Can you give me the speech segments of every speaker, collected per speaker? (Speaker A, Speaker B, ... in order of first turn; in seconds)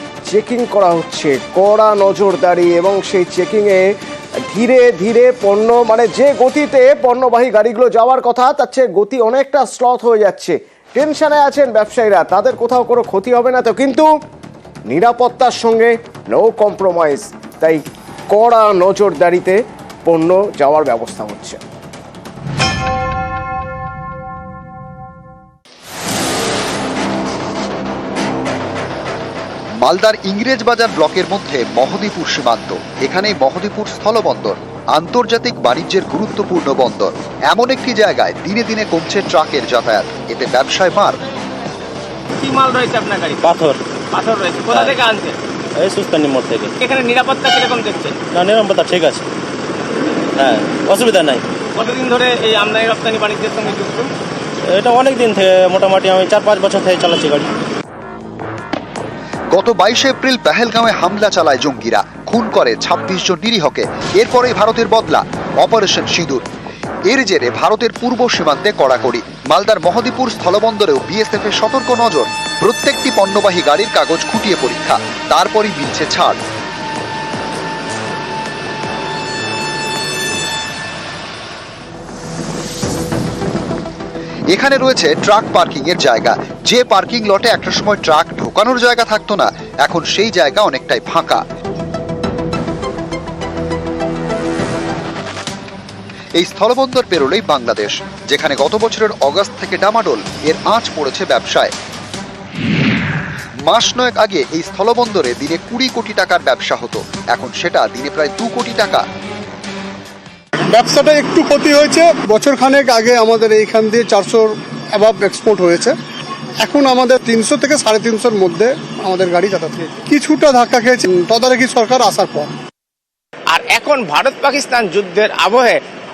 Speaker A: 0.3-3.8, 4.5-14.1, 14.9-21.6
Speaker B: 29.8-41.2, 59.5-66.4, 67.1-76.4, 84.5-91.4, 96.4-101.7, 103.7-109.0
Speaker C: 42.4-43.4, 44.1-45.4, 46.8-48.2, 51.7-54.1, 123.5-125.8
Speaker D: 43.4-43.8, 45.8-46.7, 48.3-49.2, 50.4-51.5, 54.7-57.5
Speaker E: 110.7-116.0, 116.6-122.5